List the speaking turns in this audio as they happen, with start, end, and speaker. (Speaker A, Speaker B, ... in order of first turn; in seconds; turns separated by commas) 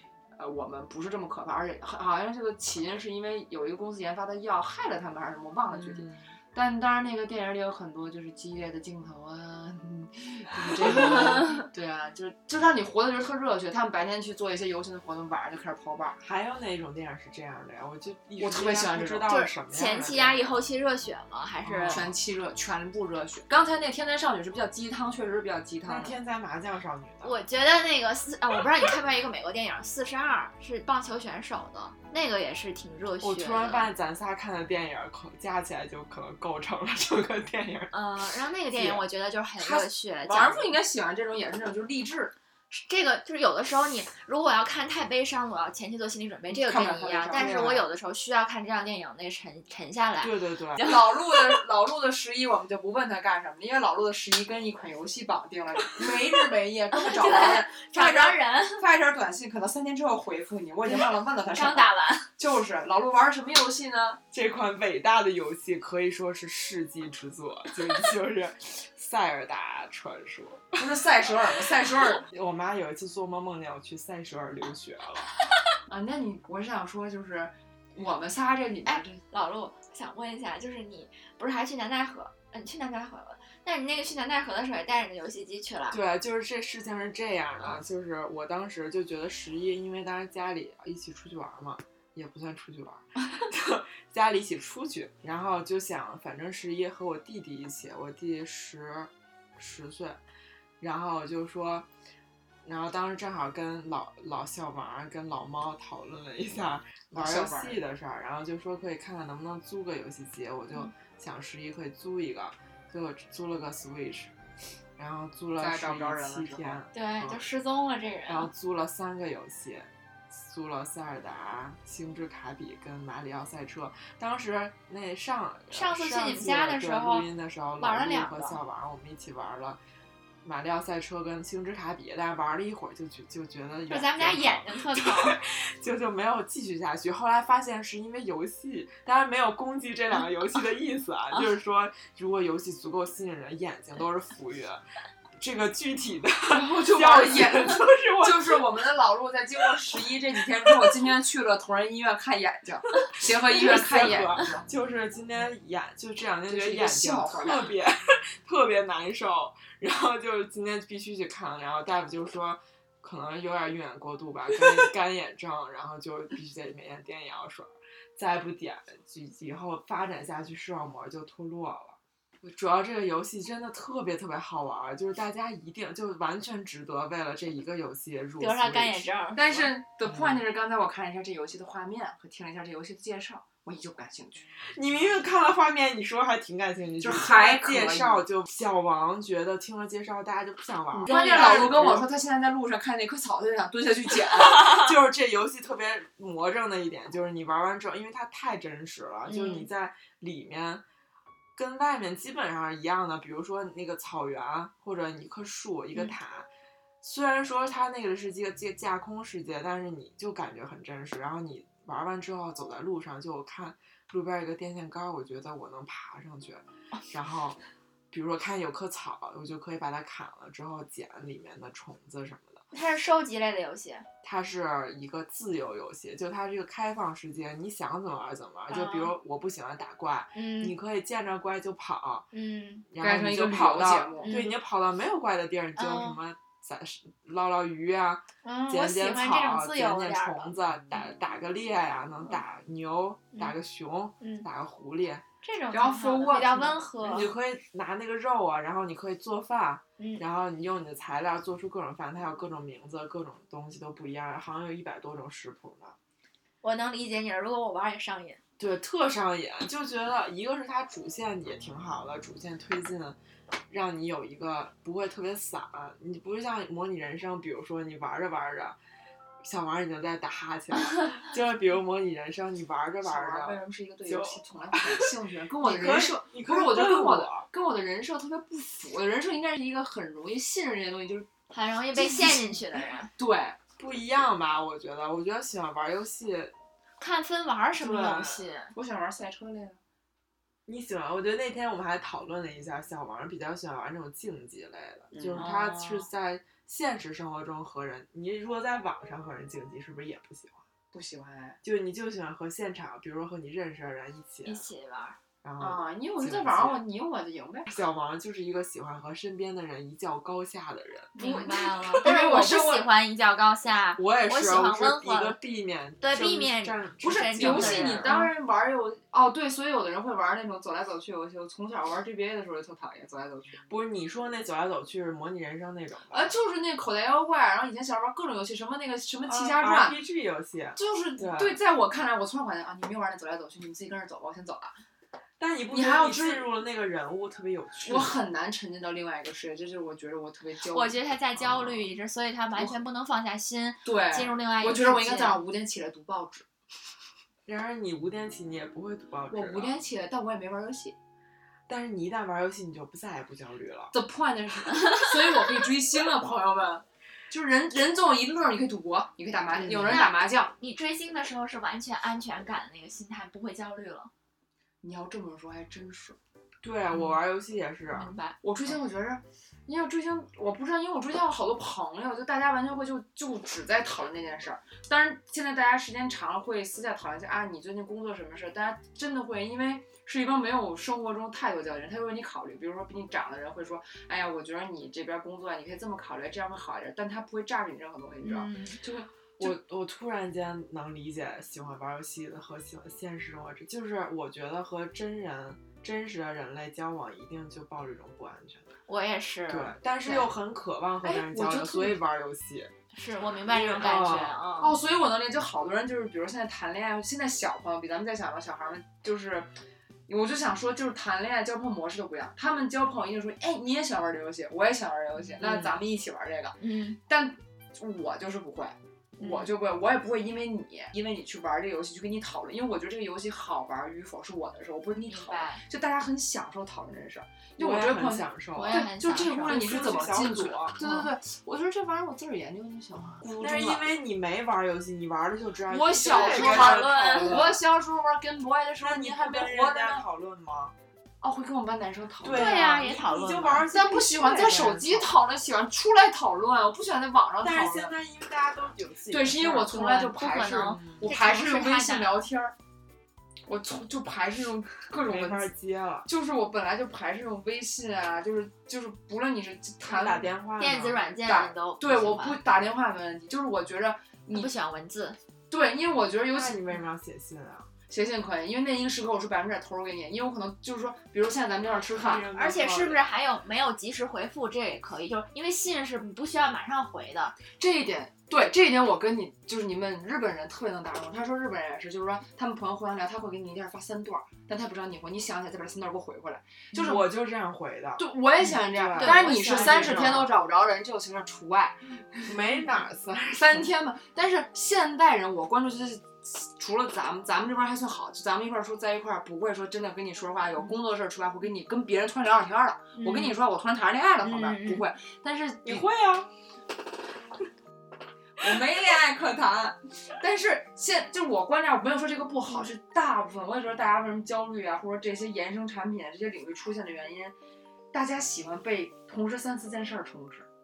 Speaker A: 0.3-16.2, Speaker B: 5.7-6.3, Speaker B: 10.8-11.4, Speaker C: 11.0-11.7, Speaker B: 16.2-20.6, Speaker A: 18.4-19.3, Speaker C: 19.3-22.1, Speaker B: 21.6-22.1, Speaker A: 21.9-26.2, Speaker B: 25.8-27.4, Speaker C: 27.2-33.9, Speaker B: 33.2-38.1, Speaker C: 37.9-40.7, Speaker B: 38.7-39.0, Speaker A: 39.6-42.3, Speaker C: 42.7-51.0, Speaker A: 46.5-47.9, Speaker B: 47.3-47.8, Speaker B: 50.2-50.9, Speaker A: 50.8-64.2, Speaker C: 56.9-58.9, Speaker C: 60.9-62.3, Speaker B: 64.3-71.4, Speaker A: 70.8-72.3, Speaker B: 72.1-75.3, Speaker A: 75.9-79.2, Speaker C: 78.9-86.0, Speaker B: 85.9-100.2, Speaker B: 100.8-101.9, Speaker B: 102.7-114.3, Speaker A: 107.1-107.8, Speaker B: 115.0-117.4, Speaker A: 115.6-116.8, Speaker C: 116.9-118.5, Speaker B: 118.3-129.8, Speaker C: 125.7-127.3, Speaker C: 127.8-128.6, Speaker B: 130.4-144.8, Speaker C: 133.9-135.4, Speaker B: 145.4-148.9, Speaker A: 146.5-154.7, Speaker B: 153.2-179.1, Speaker A: 156.5-157.8, Speaker C: 178.4-179.7, Speaker A: 179.3-184.5, Speaker B: 180.1-180.4, Speaker B: 184.7-192.1, Speaker A: 187.0-188.2, Speaker A: 191.0-194.8, Speaker C: 191.1-191.9, Speaker B: 194.6-200.8, Speaker C: 199.3-199.7, Speaker B: 201.6-206.5, Speaker B: 207.0-217.6, Speaker B: 218.1-222.7, Speaker C: 222.7-224.1, Speaker B: 224.2-232.3, Speaker C: 228.7-229.1, Speaker C: 230.3-230.7, Speaker C: 232.3-232.8, Speaker B: 232.9-245.2, Speaker A: 233.0-234.4, Speaker C: 234.2-234.5, Speaker C: 235.8-236.2, Speaker C: 238.4-240.5, Speaker C: 244.2-244.5, Speaker C: 245.4-247.3, Speaker A: 245.7-246.8, Speaker B: 247.0-256.0, Speaker C: 256.6-258.4, Speaker B: 258.6-263.2, Speaker B: 263.7-268.8, Speaker B: 269.4-277.5, Speaker A: 273.0-281.3, Speaker C: 281.5-283.1, Speaker A: 281.9-283.6, Speaker B: 283.8-286.5, Speaker C: 287.0-288.7, Speaker B: 287.8-288.5, Speaker A: 288.7-289.8, Speaker B: 290.7-300.7, Speaker A: 295.1-295.8, Speaker C: 295.4-296.0, Speaker A: 300.9-301.6, Speaker B: 301.6-304.6, Speaker C: 304.4-305.2, Speaker B: 305.4-306.8, Speaker A: 305.6-307.7, Speaker B: 307.7-311.5, Speaker A: 311.2-312.9, Speaker C: 311.2-315.4, Speaker B: 314.0-318.2, Speaker C: 316.0-318.3, Speaker A: 317.0-323.6, Speaker B: 323.7-326.3, Speaker A: 326.1-330.0, Speaker B: 329.2-331.6, Speaker A: 330.8-334.8, Speaker B: 335.4-338.1, Speaker A: 335.7-336.5, Speaker A: 337.8-341.0, Speaker C: 340.7-345.4, Speaker A: 341.5-341.8, Speaker A: 343.9-346.5, Speaker B: 347.5-349.8, Speaker A: 349.3-351.0, Speaker B: 351.7-353.9, Speaker A: 353.9-360.5, Speaker B: 359.5-360.1, Speaker C: 359.9-364.1, Speaker A: 364.8-366.2, Speaker B: 366.6-368.1, Speaker C: 367.9-368.4, Speaker A: 368.4-389.6, Speaker C: 388.2-388.8, Speaker B: 389.4-398.7, Speaker C: 398.9-399.8, Speaker B: 399.5-402.7, Speaker A: 400.0-400.3, Speaker A: 401.0-402.0, Speaker C: 402.9-404.8, Speaker B: 403.5-404.4, Speaker A: 404.6-409.5, Speaker A: 410.1-433.9, Speaker B: 415.4-415.8, Speaker C: 416.6-417.0, Speaker C: 419.2-419.5, Speaker C: 425.1-425.6, Speaker B: 427.6-430.8, Speaker C: 428.6-429.6, Speaker B: 433.3-437.6, Speaker A: 435.7-440.0, Speaker C: 436.1-437.5, Speaker B: 438.8-440.8, Speaker A: 441.2-442.6, Speaker B: 442.2-445.1, Speaker C: 442.3-443.7, Speaker A: 443.7-447.9, Speaker B: 447.4-449.7, Speaker A: 449.1-452.5, Speaker C: 449.6-452.2, Speaker B: 450.7-451.1, Speaker A: 453.5-455.5, Speaker B: 455.0-456.1, Speaker A: 456.1-460.3, Speaker B: 459.8-461.0, Speaker C: 460.6-462.4, Speaker A: 461.2-464.5, Speaker C: 464.3-465.2, Speaker A: 465.5-466.6, Speaker B: 466.2-467.7, Speaker A: 467.9-472.3, Speaker B: 471.9-473.0, Speaker C: 472.3-477.4, Speaker A: 477.5-487.1, Speaker B: 486.7-490.3, Speaker A: 488.0-492.4, Speaker C: 489.0-490.3, Speaker B: 492.2-493.7, Speaker A: 493.3-505.9, Speaker C: 503.0-503.4, Speaker C: 504.2-504.9, Speaker B: 505.6-506.3, Speaker A: 508.4-517.4, Speaker A: 517.9-520.5